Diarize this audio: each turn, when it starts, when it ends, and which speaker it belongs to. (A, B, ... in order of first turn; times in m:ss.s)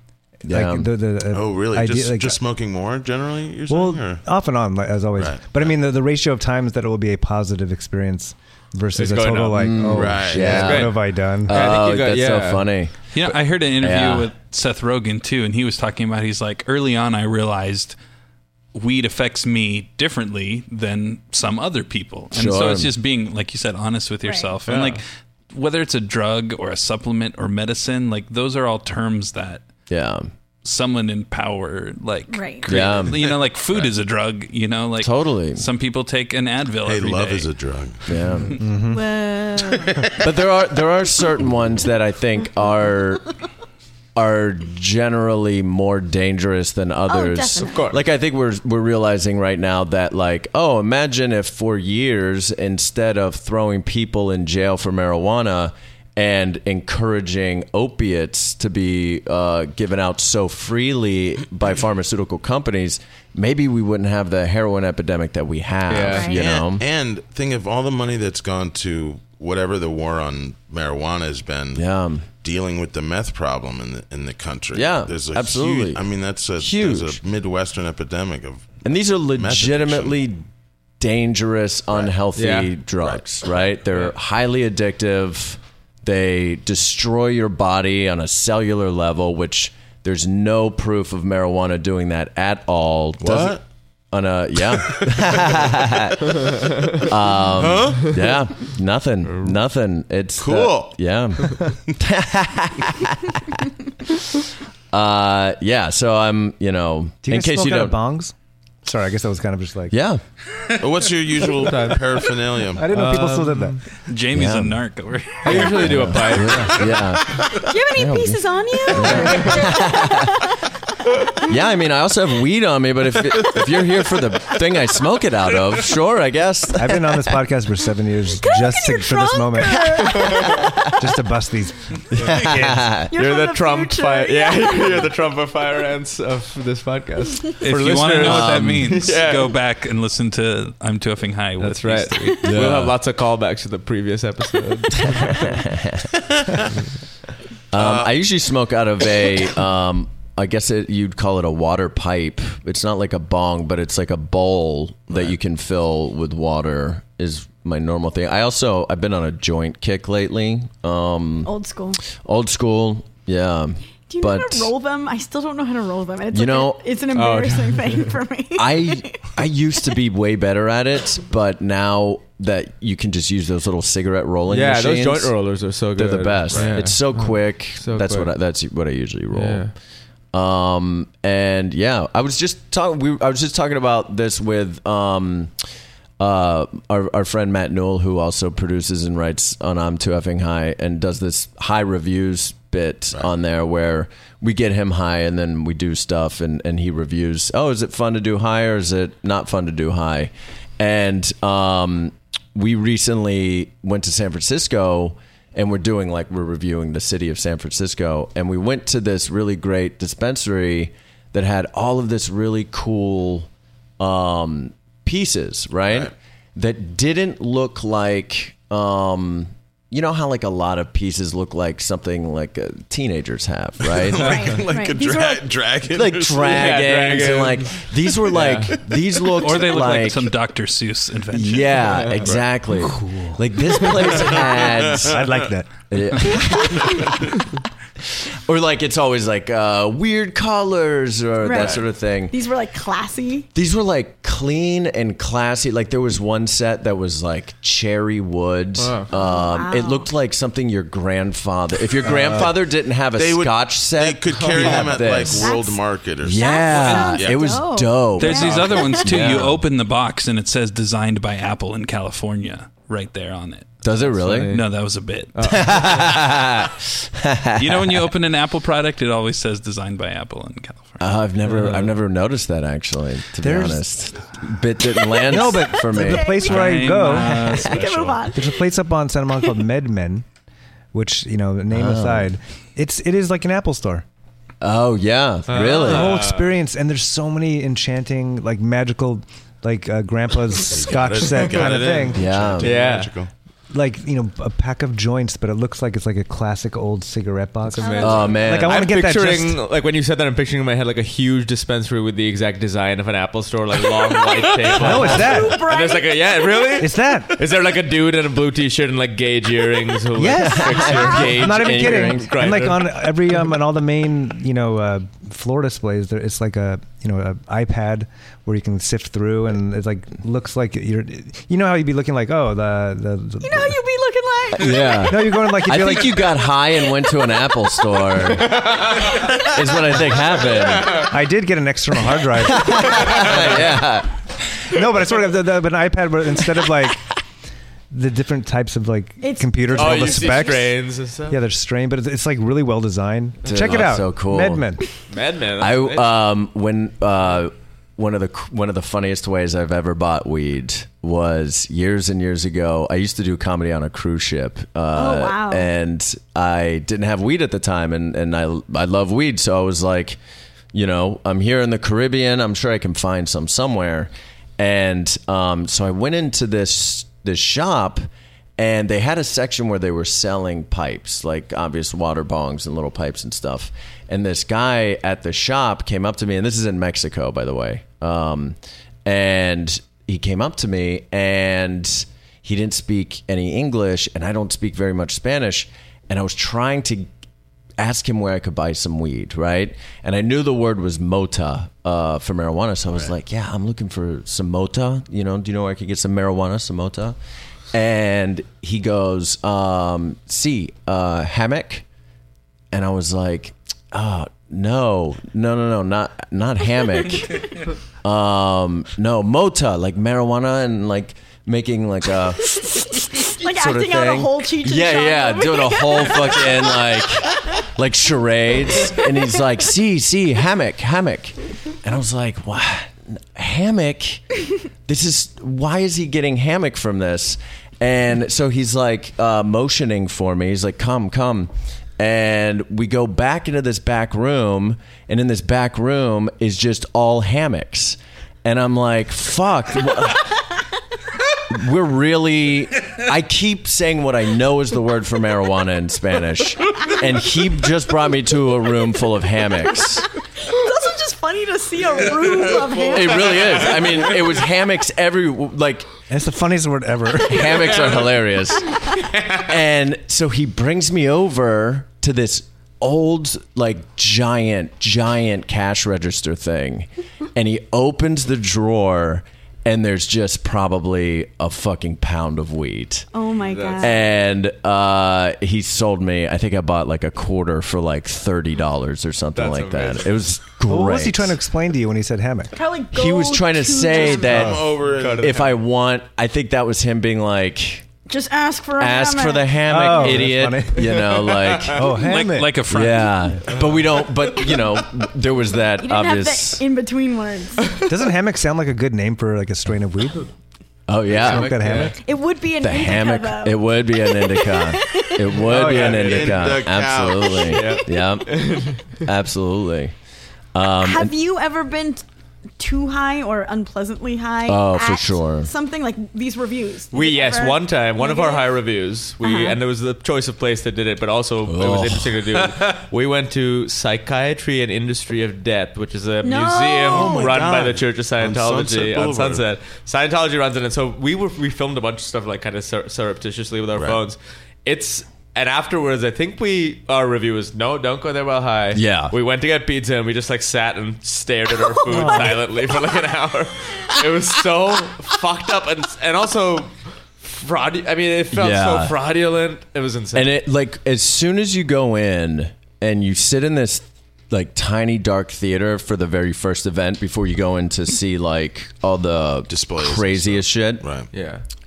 0:00.4-0:02.4 A
0:00.5-0:00.9 B
0:01.3-0:04.2 C
0:03.7-0:11.5 A
0:05.2-0:05.7 C
0:08.9-0:12.6 D
0:09.6-0:13.0 B
0:09.9-0:10.8 C
0:13.1-0:18.0 E
0:13.8-0:14.3 B
0:18.7-0:29.6 E
0:22.3-0:22.9 B
0:24.2-0:24.6 F
0:24.6-0:25.0 D
0:29.9-0:30.3 B
0:30.6-0:37.5 E
0:32.3-0:32.7 F
0:32.7-0:33.2 B
0:35.0-0:35.7 B
0:36.8-0:38.0 C
0:38.1-0:38.6 B
0:38.6-0:39.0 A
0:38.9-0:40.1 F
0:40.2-0:43.2 B
0:44.2-1:06.8 B
0:47.1-0:47.8 F
0:47.6-0:48.0 D
1:05.9-1:06.3 D
1:06.0-1:06.4 F
1:06.3-1:11.8 C
1:11.8-1:12.2 B
1:12.4-1:18.7 C
1:14.7-1:16.0 B
1:16.6-1:17.2 B
1:18.8-1:20.4 B
1:19.3-1:20.1 C
1:21.0-1:33.6 B
1:22.4-1:22.7 D
1:33.2-1:33.6 C
1:34.1-1:43.6 B
1:34.9-1:35.2 C
1:37.5-1:38.1 C
1:40.4-1:40.9 C
1:44.9-1:48.0 B
1:47.2-1:48.3 A
1:48.8-1:49.9 A
1:49.9-1:50.2 B
1:50.8-1:52.8 C
1:51.5-1:52.0 D
1:52.8-1:53.8 A
1:52.9-1:53.8 D
1:54.1-1:56.4 E
1:54.3-1:54.8 B
1:55.4-1:57.0 D
1:55.5-2:00.3 B
1:57.6-2:00.6 F
2:01.5-2:07.2 B
2:06.8-2:10.3 A
2:08.4-2:10.9 F
2:10.5-2:10.7 B
2:10.9-2:12.8 A
2:12.1-2:13.1 B
2:13.1-2:15.0 F
2:13.1-2:19.6 D
2:17.6-2:22.7 E
2:18.2-2:19.1 B
2:21.6-2:25.6 D
2:22.4-2:23.0 B
2:25.0-2:26.0 B
2:26.1-2:26.7 C
2:27.7-2:41.5 B
2:27.7-2:28.1 C
2:41.4-2:42.0 F
2:42.1-2:44.7 B
2:44.1-2:49.3 F
2:46.3-2:46.8 B
2:47.1-2:48.1 D
2:48.5-2:55.4 B
2:54.5-2:58.3 D
2:55.9-2:59.7 B
2:59.3-2:59.7 D
3:00.3-3:05.5 B
3:06.2-3:44.4 B
3:43.9-3:46.8 C
3:44.2-3:45.5 F
3:44.2-3:44.6 D
3:45.9-3:50.3 B
3:46.4-3:48.8 D
3:49.4-3:51.9 E
3:51.3-3:55.1 B
3:51.9-3:52.3 D
3:52.8-3:53.4 A
3:54.0-3:55.4 C
3:54.9-3:55.7 A
3:55.9-3:57.1 B
3:58.4-4:02.3 B
4:01.4-4:03.5 F
4:03.5-4:15.5 B
4:08.8-4:09.1 D
4:09.1-4:10.1 F
4:13.2-4:17.4 C
4:14.3-4:15.0 D
4:15.2-4:19.2 F
4:16.2-4:19.6 B
4:18.2-4:23.8 E
4:23.8-4:24.6 B
4:24.1-4:24.7 D
4:24.5-4:25.6 E
4:25.3-4:25.9 D
4:25.4-4:28.1 B
4:27.6-4:31.1 E
4:31.0-4:36.4 B
4:31.5-4:31.9 D
4:33.4-4:33.8 A
4:35.2-4:37.6 A
4:36.0-4:38.6 F
4:36.4-4:38.2 E
4:37.5-4:37.7 B
4:38.3-4:40.2 A
4:40.9-4:44.0 A
4:41.7-4:42.3 B
4:44.6-4:46.2 B
4:45.5-4:46.5 D
4:45.8-4:52.2 A
4:50.6-4:53.3 C
4:52.1-4:52.7 B
4:52.6-4:53.1 D
4:53.7-4:59.6 A
4:57.7-5:13.1 D
4:57.8-4:58.5 F
4:58.0-4:58.9 B
5:04.8-5:06.8 F
5:04.8-5:05.6 A
5:06.8-5:07.4 A
5:10.2-5:23.7 A
5:10.3-5:12.4 B
5:10.8-5:11.3 F
5:23.4-5:25.2 F
5:24.5-5:31.1 B
5:25.0-5:26.3 A
5:28.3-5:29.2 D
5:30.5-5:31.1 D
5:31.0-5:33.5 A
5:32.5-5:34.1 B
5:33.0-5:33.5 D
5:34.7-5:37.0 A
5:37.9-5:40.8 A
5:39.2-5:40.6 F
5:39.7-5:41.4 D
5:41.3-5:44.8 A
5:43.4-5:44.7 B
5:43.5-5:43.7 D
5:45.1-5:46.2 D
5:45.6-6:00.2 B
5:54.9-5:55.7 F
6:00.7-6:08.1 B
6:08.6-6:27.1 B
6:27.8-6:37.2 B
6:37.7-6:41.8 B
6:42.7-6:52.5 B
6:52.4-6:56.9 F
6:53.4-7:04.2 B
7:04.8-7:20.3 B
7:21.5-7:30.1 B
7:30.4-7:33.7 F
7:32.9-7:35.9 B
7:33.2-7:33.9 D
7:36.1-7:37.6 A
7:37.2-7:53.1 B
7:53.1-7:54.0 F
7:53.5-7:54.0 D
7:53.8-8:01.4 B
7:59.4-8:00.2 D
8:00.7-8:02.5 A
8:02.5-8:04.5 F
8:02.9-8:07.9 B
8:04.0-8:05.4 C
8:04.6-8:05.5 D
8:08.1-8:10.1 F
8:08.8-8:11.9 B
8:09.6-8:11.0 A
8:10.8-8:11.7 D
8:11.7-8:12.6 A
8:11.8-8:13.3 E
8:12.7-8:16.6 B
8:13.5-8:14.2 D
8:15.8-8:17.7 F
8:17.8-8:20.3 A
8:20.9-8:21.7 B
8:21.1-8:22.0 D
8:21.2-8:22.0 A
8:21.9-8:25.4 F
8:22.6-8:29.9 B
8:25.4-8:26.5 D
8:25.5-8:25.9 A
8:25.5-8:27.6 C
8:27.5-8:29.0 D
8:30.5-8:31.1 B
8:30.8-8:32.0 F
8:32.6-8:38.6 F
8:34.5-8:35.5 B
8:36.9-9:10.4 D
8:39.2-8:39.6 F
8:41.4-8:42.3 B
8:46.2-8:47.3 F
8:46.8-8:49.4 C
8:58.7-8:59.1 B
9:08.3-9:09.0 B
9:10.1-9:20.8 B
9:19.5-9:21.1 C
9:21.1-9:21.4 D